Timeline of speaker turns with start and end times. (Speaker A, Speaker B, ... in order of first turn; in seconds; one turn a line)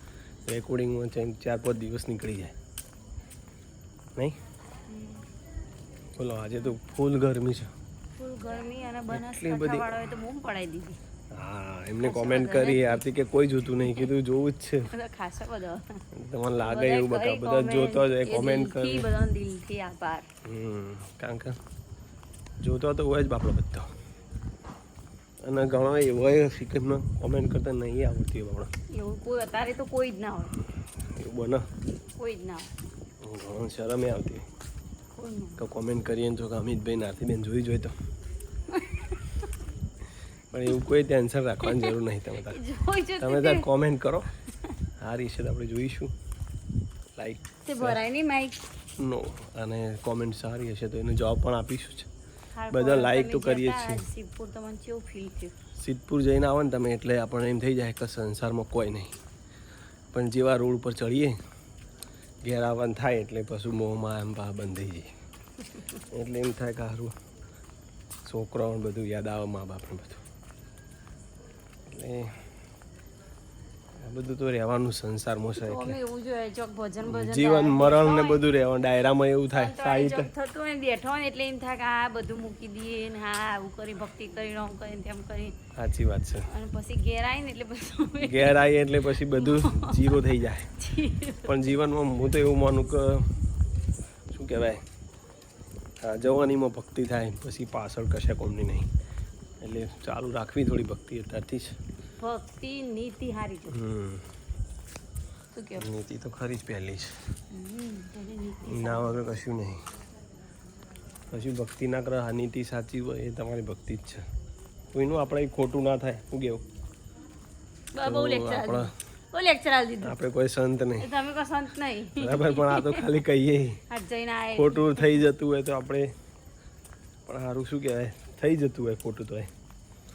Speaker A: 0.5-2.5
Speaker B: 4.9-5.2
Speaker A: 6.2-7.7
Speaker B: 8.2-11.0
Speaker A: 9.1-9.9
Speaker A: 11.3-14.9
Speaker B: 12.0-13.0
Speaker B: 13.8-14.1
Speaker B: 14.9-16.0
Speaker A: 16.1-19.1
Speaker B: 16.6-20.2
Speaker A: 20.4-21.6
Speaker A: 22.6-23.9
Speaker A: 25.4-28.7
Speaker B: 28.9-30.6
Speaker A: 31.1-31.6
Speaker B: 32.2-32.7
Speaker A: 33.2-34.5
Speaker B: 35.2-35.6
Speaker A: 35.6-37.9
Speaker B: 38.7-39.2
Speaker A: 40.5-42.6
Speaker B: 41.6-43.6
Speaker A: 43.2-44.3
Speaker A: 45.0-46.1
Speaker A: 47.1-48.0
Speaker B: 47.6-48.6
Speaker A: 49.0-52.1
Speaker B: 52.5-55.5
Speaker A: 52.7-54.0
Speaker A: 55.8-59.2
Speaker A: 60.1-61.4
Speaker A: 62.4-65.1
Speaker A: 66.1-67.1
Speaker A: 68.2-70.2
Speaker A: 71.9-72.4
Speaker A: 74.0-76.0
Speaker B: 75.6-78.4
Speaker A: 77.0-80.3
Speaker B: 79.5-85.6
Speaker A: 85.7-86.5
Speaker B: 86.5-90.2
Speaker A: 88.2-90.7
Speaker B: 90.8-91.7
Speaker A: 91.4-93.3
Speaker A: 94.3-94.8
Speaker A: 96.0-98.9
Speaker A: 99.6-101.7
Speaker B: 102.2-103.8
Speaker A: 103.7-104.3
Speaker B: 105.5-105.9
Speaker A: 105.8-107.1
Speaker B: 107.5-109.2
Speaker A: 108.6-109.8
Speaker A: 111.3-114.2
Speaker A: 114.9-116.6
Speaker B: 117.9-120.2
Speaker A: 118.0-118.9
Speaker A: 120.0-121.1
Speaker B: 121.0-123.1
Speaker A: 122.2-123.8
Speaker B: 123.9-125.2
Speaker A: 124.5-126.1
Speaker A: 127.3-129.5